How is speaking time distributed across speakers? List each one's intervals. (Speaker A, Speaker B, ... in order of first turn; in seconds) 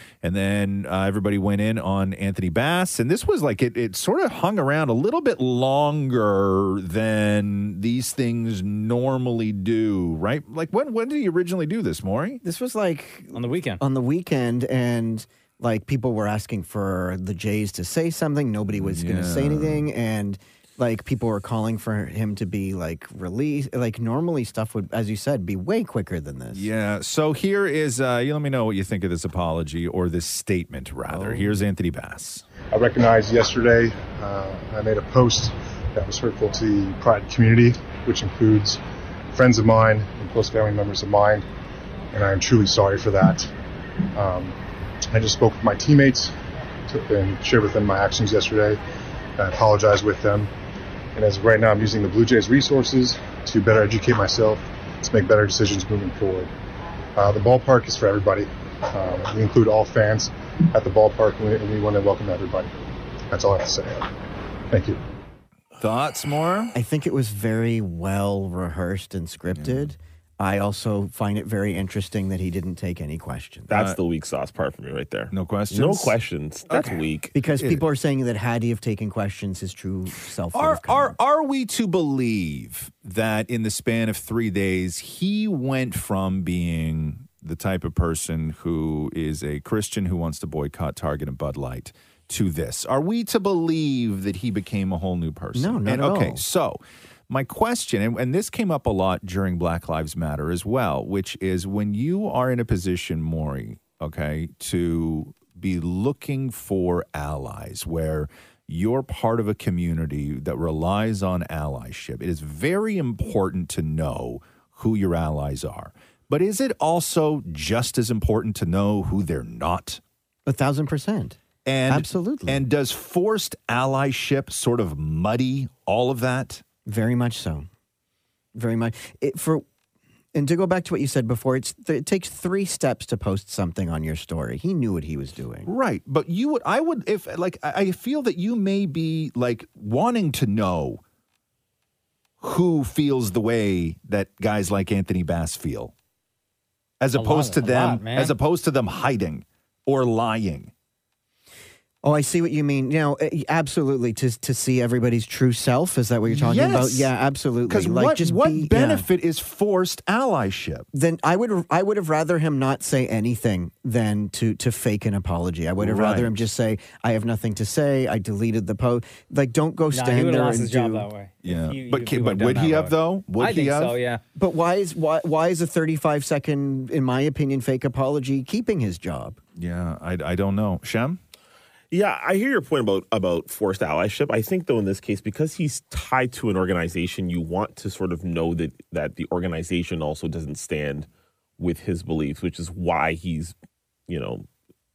Speaker A: 0.2-12.4, 18.7-19.9, 26.5-32.4, 65.8-66.7, 69.5-69.9, 75.3-76.1, 76.7-77.8, 80.5-120.0, 121.6-126.6, 135.7-141.0, 142.4-145.9, 147.0-150.7, 156.3-157.1, 157.7-160.8, 165.8-166.3, 171.4-173.9, 179.6-181.2
Speaker B: 12.4-26.7, 31.1-31.4, 66.7-73.7, 77.3-81.2, 95.5-96.4, 120.5-122.6, 126.8-127.7, 128.5-129.6, 130.3-135.7, 152.0-159.1, 160.9-171.1, 174.3-179.4
Speaker C: 13.3-13.8, 147.1-148.3, 169.9-174.2
Speaker D: 32.7-38.8, 39.3-41.5, 42.1-43.5, 44.1-44.5, 45.1-46.3, 46.9-48.8, 49.4-50.5, 51.1-56.5, 57.1-62.7, 63.3-64.1, 64.7-65.0
Speaker E: 73.7-77.3, 181.9-193.5, 194.1-194.5